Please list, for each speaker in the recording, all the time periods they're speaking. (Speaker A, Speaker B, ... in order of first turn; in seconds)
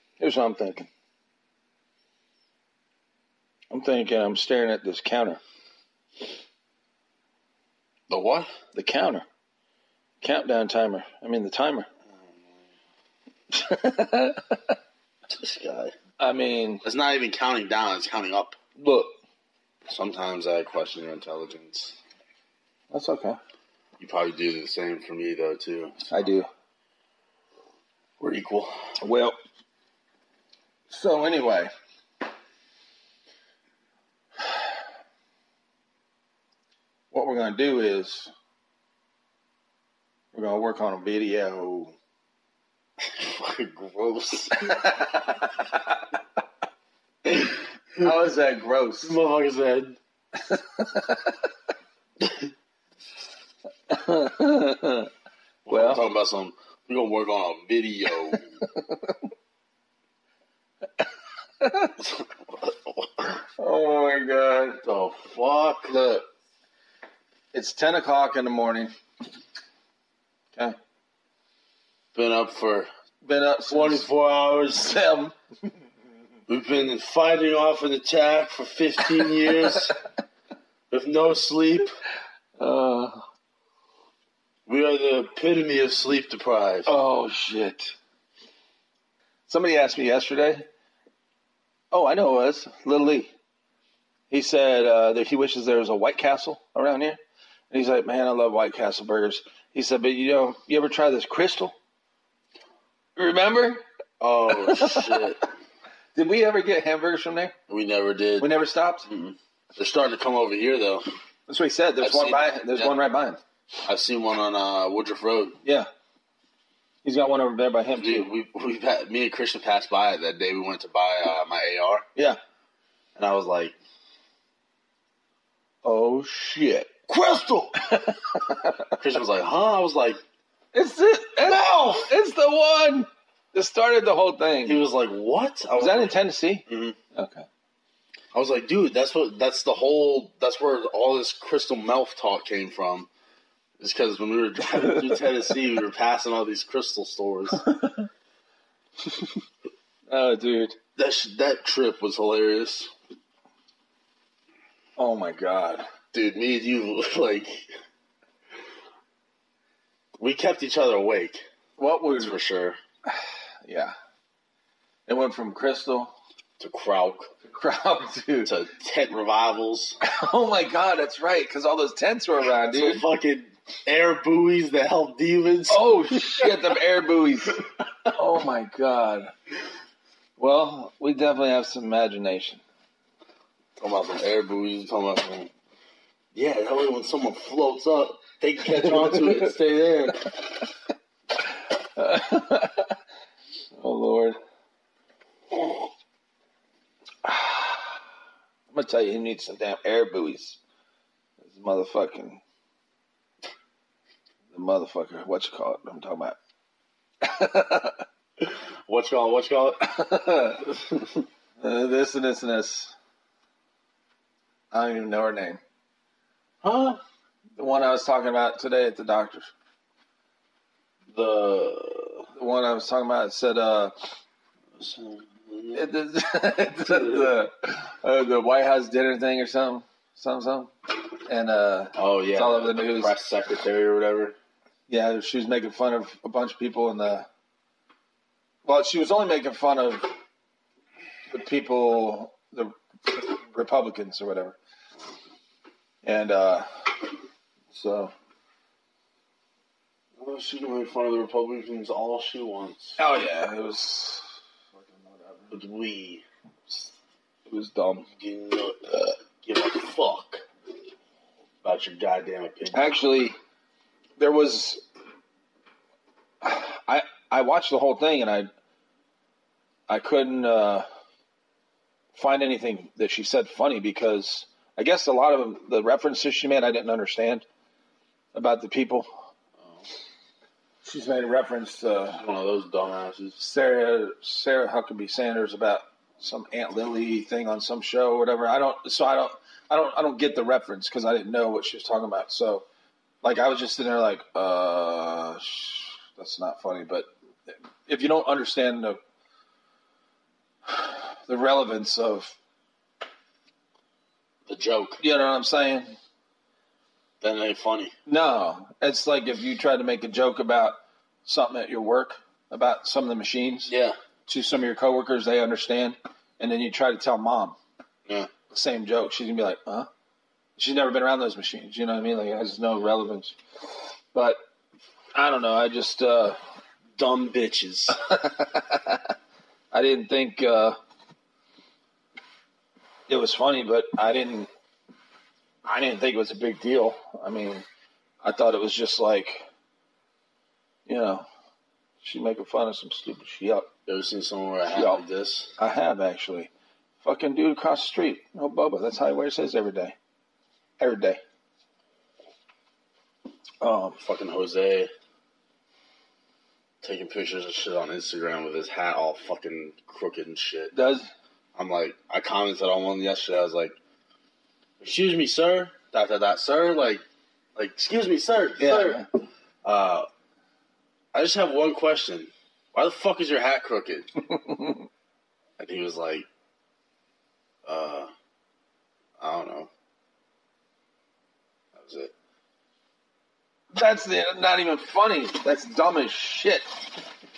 Speaker A: 0.2-0.9, 3.7-5.4, 8.7-9.2, 10.2-11.9, 13.5-14.7, 16.2-16.8, 18.8-19.1, 22.9-23.4, 26.1-26.5, 29.0-29.4, 30.9-31.7, 37.1-38.3, 40.3-41.9, 44.7-45.7, 48.0-49.1, 50.4-51.4, 53.9-55.1, 55.7-56.0, 58.3-59.2, 61.6-61.9, 63.6-64.8, 65.9-66.2, 67.5-68.9, 73.2-74.1, 74.8-75.3, 82.6-83.2, 86.8-87.9, 89.5-90.6, 91.9-93.3, 94.3-97.2, 97.7-101.7, 103.2-103.8, 104.5-105.2, 106.1-107.5, 108.4-109.1, 111.5-113.4, 117.0-118.3, 125.8-126.9, 127.8-128.9, 130.7-134.8, 135.7-137.4, 147.7-148.0, 150.1-150.8, 155.0-155.8, 161.8-162.3, 163.1-163.9, 165.1-166.1, 167.4-168.5, 170.0-173.0, 175.7-179.3, 180.4-182.6, 191.8-192.9, 193.7-194.4, 197.2-197.8, 198.7-200.6, 201.4-202.4, 204.5-206.3, 207.2-208.0, 209.8-210.7, 211.6-212.9, 214.7-215.6, 217.6-219.5, 222.3-223.9, 225.7-230.7, 231.2-233.1, 234.9-237.3, 238.6-240.1, 241.3-244.6, 246.0-246.7, 247.7-248.1, 253.0-255.5, 257.5-258.1, 262.7-263.3, 264.2-264.8, 266.4-268.5, 269.9-270.9, 272.1-277.4, 278.3-279.1, 280.8-282.2, 283.4-292.6, 293.2-299.0, 300.7-302.3, 305.0-305.9, 308.1-313.7, 314.3-317.6, 318.5-319.9, 320.6-323.4, 325.1-326.4, 328.1-329.0, 329.7-330.8, 333.1-334.5, 335.6-337.6, 338.2-339.4, 340.9-341.2, 342.0-343.7, 344.7-345.0, 345.6-346.5, 347.0-349.9, 350.8-351.2, 353.6-354.0, 360.7-361.1, 368.6-369.0, 374.3-374.8, 383.7-386.6
Speaker B: 8.1-8.5, 12.2-12.6, 15.3-15.9, 16.8-18.6, 19.9-22.0, 24.0-26.2, 28.2-28.7, 43.1-44.8, 47.3-48.1, 49.0-50.0, 52.2-52.5, 55.6-58.5, 62.0-63.4, 64.8-66.0, 72.1-72.9, 73.7-75.0, 76.5-79.9, 80.9-81.9, 84.7-86.9, 104.2-105.4, 107.7-111.0, 112.0-112.9, 113.8-115.6, 117.9-122.0, 123.2-123.8, 127.1-127.8, 129.0-130.2, 131.5-131.9, 134.6-137.0, 138.3-143.1, 143.8-147.6, 151.0-152.9, 156.1-157.7, 160.2-161.4, 162.2-162.8, 166.6-167.3, 168.4-170.0, 172.7-176.7, 183.8-185.5, 186.3-190.4, 208.4-209.9, 210.6-211.2, 216.6-217.0, 221.1-222.3, 224.7-225.9, 231.9-234.3, 250.2-253.0, 255.5-256.2, 258.1-260.4, 261.6-262.9, 279.6-279.9, 282.1-283.4, 304.5-305.0, 307.2-307.9, 313.7-313.9, 326.9-328.0, 343.9-345.5, 354.0-354.9, 356.8-360.7, 361.6-363.7, 364.8-367.0, 367.6-369.0, 369.6-370.1, 371.1-374.1, 375.6-376.2, 377.6-378.1, 379.2-379.7, 381.7-382.1